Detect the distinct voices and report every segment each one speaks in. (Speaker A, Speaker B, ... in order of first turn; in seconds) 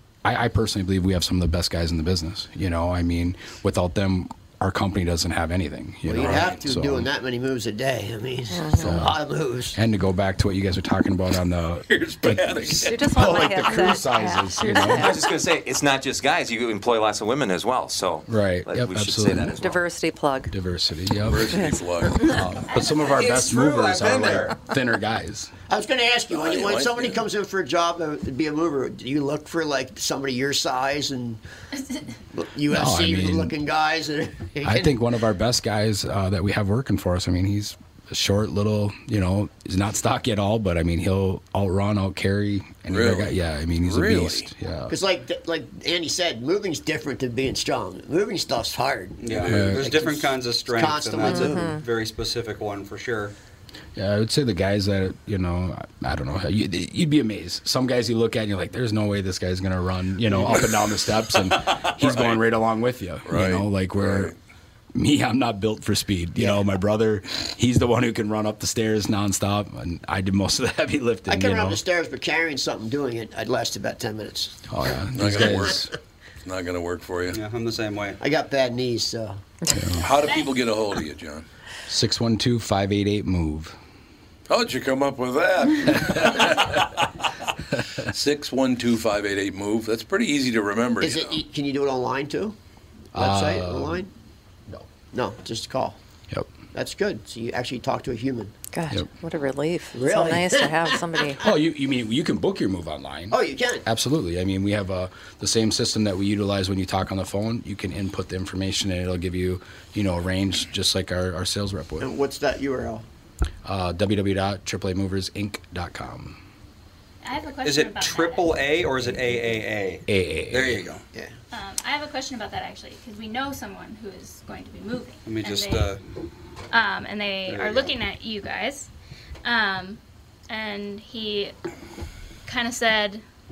Speaker A: 0.2-7.1, 8.8-9.2, 9.7-15.2, 18.3-19.7, 20.5-25.5, 32.7-33.5, 34.6-45.0, 49.5-49.9, 54.0-64.3, 64.9-71.8, 74.7-75.9, 79.7-80.1, 81.9-83.7, 86.0-86.5, 93.1-94.0, 101.4-112.1, 113.6-116.4, 120.1-120.9
Speaker B: 6.0-9.8, 25.7-31.4, 32.3-34.9, 44.9-51.8, 66.4-66.6, 71.3-74.5, 78.2-79.4, 91.0-92.5, 93.1-94.1, 94.8-96.0, 96.7-98.5, 99.9-101.3, 103.3-103.8, 112.0-113.0
Speaker C: 6.2-6.5, 11.9-13.6, 21.3-22.3, 26.3-27.2, 42.9-44.5, 49.4-49.6, 61.3-62.5, 63.2-64.3, 75.2-75.9, 76.4-77.4, 80.0-81.5, 84.5-86.9, 88.0-91.4
Speaker D: 8.5-9.1, 12.8-15.2, 19.6-20.5, 51.2-51.8, 79.6-80.0, 98.7-101.5
Speaker E: 14.9-19.8
Speaker F: 23.0-24.5, 49.2-53.3, 60.3-60.6, 77.3-78.2, 117.6-121.0, 125.2-126.0, 127.5-127.9
Speaker G: 31.7-32.0, 80.2-80.7, 117.2-118.6, 121.5-126.0, 126.7-128.9, 129.4-131.5, 132.4-133.2